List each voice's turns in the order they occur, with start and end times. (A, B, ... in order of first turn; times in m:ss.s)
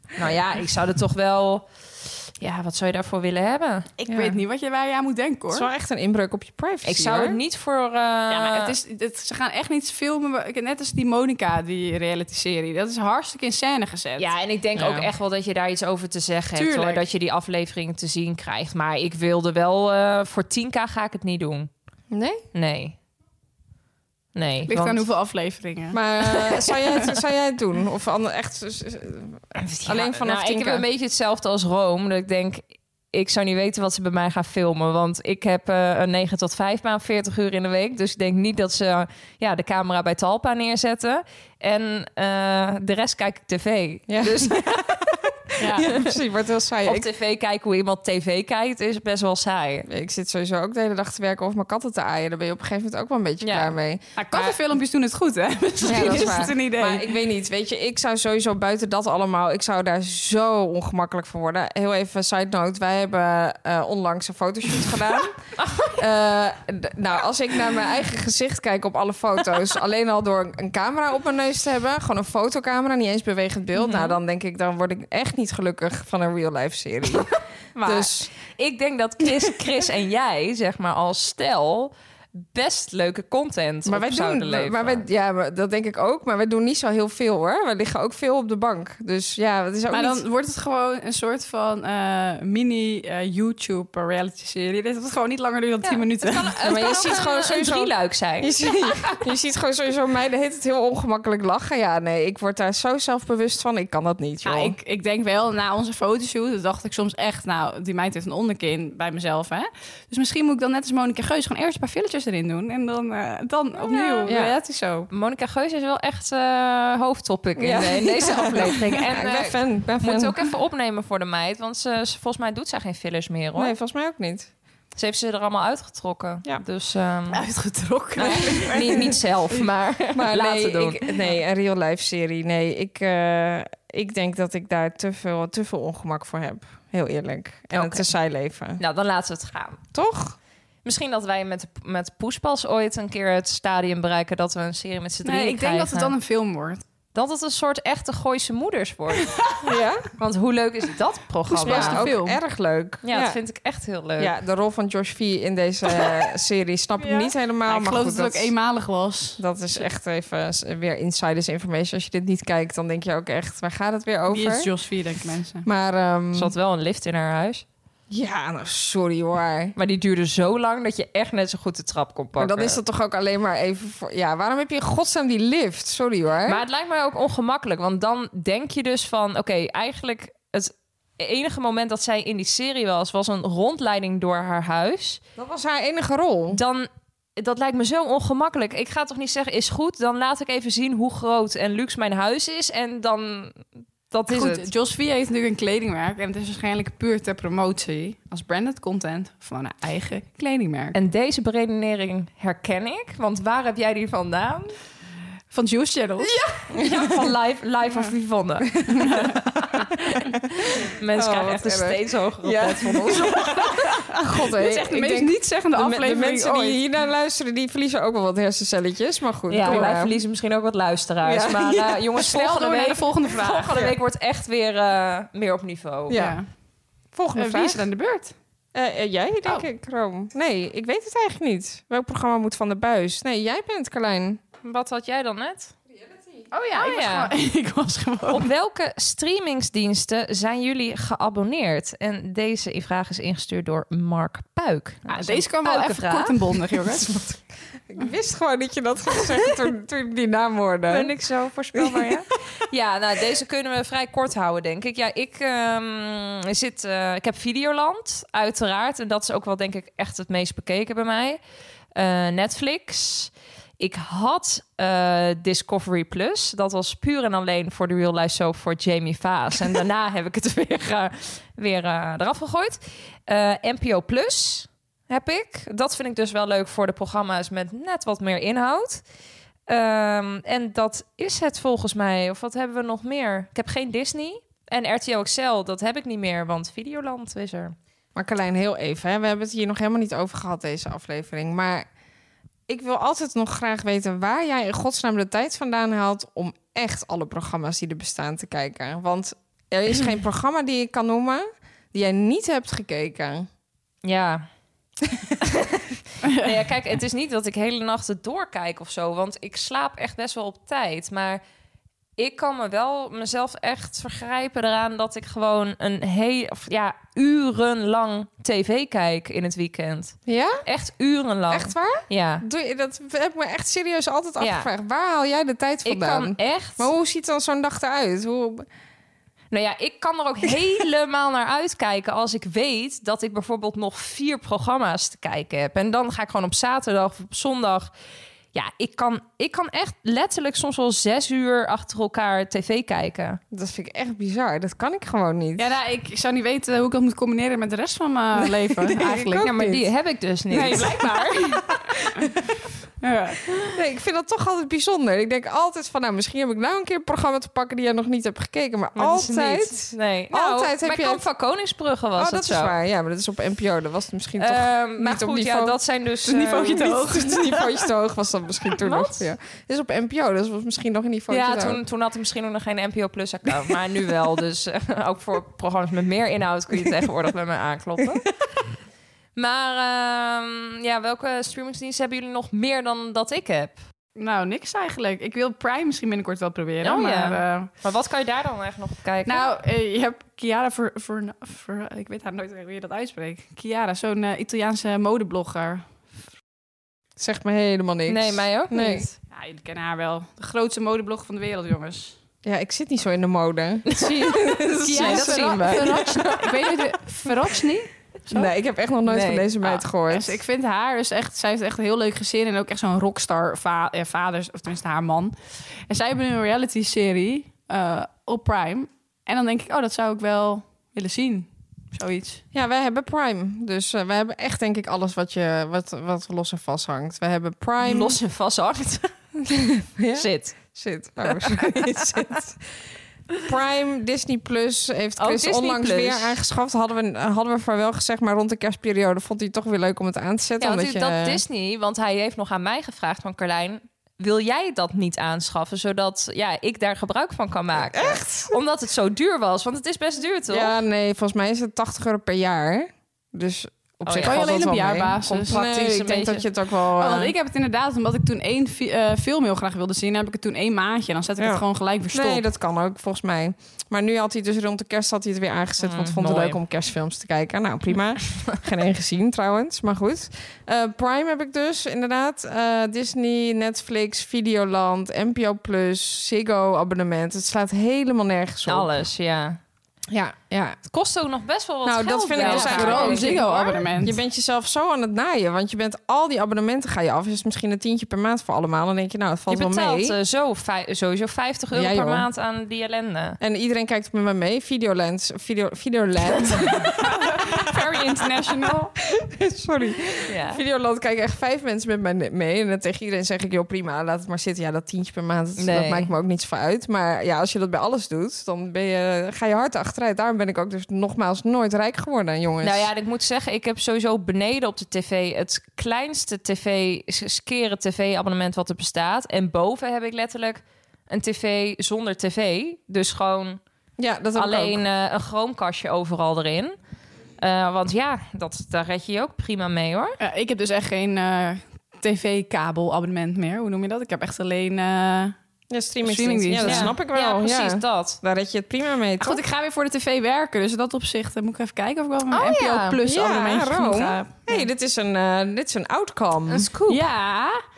0:00.2-0:03.9 A
0:04.0-0:05.7 B
0:04.1-0:04.4 C
0:05.5-0:07.4 C
0:06.8-0:08.8 A
0:08.3-0:14.3 B
0:14.2-0:21.7 A
0:14.8-0:15.1 C
0:16.5-0:17.0 B
0:22.1-0:22.4 C
0:22.5-0:23.0 A
0:24.3-0:25.1 A
0:24.7-0:26.0 B
0:25.9-0:30.8 C
0:26.3-0:27.1 A
0:29.6-0:44.8 A
0:44.1-0:44.6 C
0:45.5-0:47.1 C
0:45.6-0:45.9 B
0:45.8-0:46.1 A
0:46.8-0:49.9 A
0:49.9-0:54.6 C
0:53.4-0:53.7 A
0:54.2-0:57.0 B
0:55.8-1:05.3 C
0:55.9-0:56.5 A
1:05.6-1:05.9 A
1:06.0-1:18.3 C
1:13.8-1:14.2 A
1:17.8-1:25.0 A
1:23.8-1:30.2 C
1:29.9-1:36.6 B
1:35.8-1:39.2 A
1:36.6-1:44.8 C
1:44.4-1:55.1 B
1:53.8-1:54.3 A
1:54.3-1:54.5 C
1:55.1-2:03.7 A
1:57.6-2:00.4 C
2:03.5-2:04.5 C
2:04.9-2:07.4 A
2:07.3-2:09.7 B
2:08.2-2:11.1 A
2:08.2-2:09.0 C
2:10.1-2:18.8 C
2:17.7-2:18.1 A
2:18.8-2:19.8 A
2:19.9-2:20.4 C
2:20.8-2:26.1 A
2:25.2-2:26.8 B
2:27.1-2:29.4 A
2:29.2-2:29.6 B
2:29.6-2:30.1 C
2:30.2-2:32.1 A
2:31.5-2:33.4 C
2:31.6-2:32.4 B
2:33.0-2:34.3 A
2:34.2-2:38.5 C
2:37.0-2:39.8 B
2:39.4-2:44.7 C
2:44.3-2:45.6 B
2:45.6-2:46.5 C
2:46.3-2:47.6 A
2:48.1-2:49.7 C
2:49.8-2:52.8 A
2:52.4-2:56.6 C
2:56.4-3:05.2 A
3:05.4-3:06.6 C
3:06.5-3:14.7 A
3:14.3-3:21.0 B
3:20.9-3:24.7 A
3:25.5-3:26.3 B
3:26.7-3:29.8 A
3:26.7-3:27.1 C
3:28.8-3:30.2 C
3:28.9-3:29.4 B
3:31.0-3:33.4 A
3:31.1-3:40.2 C
3:33.3-3:36.8 B
3:39.5-3:46.2 A
3:39.6-3:39.9 B
3:41.2-3:42.0 C
3:42.2-3:43.9 B
3:46.1-3:46.4 C
3:46.1-3:46.4 B
3:47.1-3:47.9 C
3:47.4-3:48.3 B
3:48.7-3:54.4 C
3:54.6-3:55.7 A
3:56.5-3:58.5 B
3:56.7-3:57.3 A
3:58.3-4:06.6 A
4:05.1-4:07.4 B
4:07.9-4:11.1 C
4:10.9-4:21.4 A
4:11.7-4:12.2 C
4:21.9-4:39.0 A
4:39.7-4:47.7 A
4:48.1-4:51.8 C
4:52.7-5:03.5 C
5:04.0-5:04.4 A
5:05.4-5:11.4 A
5:12.2-5:22.4 A
5:20.3-5:20.6 C
5:21.5-5:28.6 C
5:24.4-5:24.7 A
5:25.8-5:26.9 A
5:29.5-5:37.9 A
5:38.5-5:43.4 A
5:43.5-5:45.7 C
5:45.6-5:49.5 B
5:48.7-5:49.8 C
5:49.1-5:50.9 A
5:50.5-5:51.6 B
5:50.6-5:52.5 C
5:53.0-5:53.6 B
5:53.6-6:01.2 C
5:58.9-6:02.7 A
6:02.2-6:05.8 C
6:04.4-6:06.9 A
6:06.2-6:07.9 B
6:06.7-6:11.8 C
6:08.8-6:09.3 A
6:11.3-6:18.3 A
6:19.3-6:23.8 A
6:24.2-6:27.7 B
6:26.8-6:29.5 A
6:29.2-6:36.0 B
6:37.2-6:39.1 C
6:38.1-6:39.1 A
6:39.3-6:42.2 B
6:42.4-6:46.5 C
6:43.9-6:46.2 A
6:44.8-6:48.5 B
6:48.3-6:50.4 C
6:49.0-6:49.8 A
6:50.1-6:55.3 B
6:55.9-7:02.4 B
7:02.5-7:08.2 C
7:07.8-7:09.1 A
7:09.4-7:12.6 C
7:10.1-7:10.6 A
7:11.2-7:12.3 A
7:13.4-7:21.4 C
7:15.2-7:16.4 A
7:20.6-7:30.7 A
7:27.8-7:28.5 C
7:30.5-7:37.3 C
7:34.0-7:34.5 A
7:34.2-7:35.6 B
7:35.5-7:36.4 A
7:37.0-7:42.4 B
7:42.1-7:58.9 C
7:45.8-7:46.6 A
7:48.3-7:48.6 A
7:58.6-7:59.6 A
8:00.1-8:00.8 C
8:00.8-8:03.9 A
8:01.8-8:10.1 C
8:02.4-8:04.2 B
8:09.5-8:13.4 A
8:11.7-8:12.3 C
8:13.4-8:17.5 C
8:17.0-8:18.9 B
8:19.1-8:32.9 C
8:20.2-8:20.6 A
8:25.6-8:26.1 A
8:32.6-8:43.6 A
8:44.0-8:44.8 C
8:44.3-8:46.7 A
8:47.4-8:50.2 A
8:50.2-8:55.4 B
8:55.7-8:59.4 C
8:56.0-8:56.9 B
8:56.6-8:58.2 A
8:59.2-9:04.6 B
9:02.3-9:03.0 A
9:03.1-9:06.7 C
9:06.5-9:07.0 A
9:06.9-9:07.6 B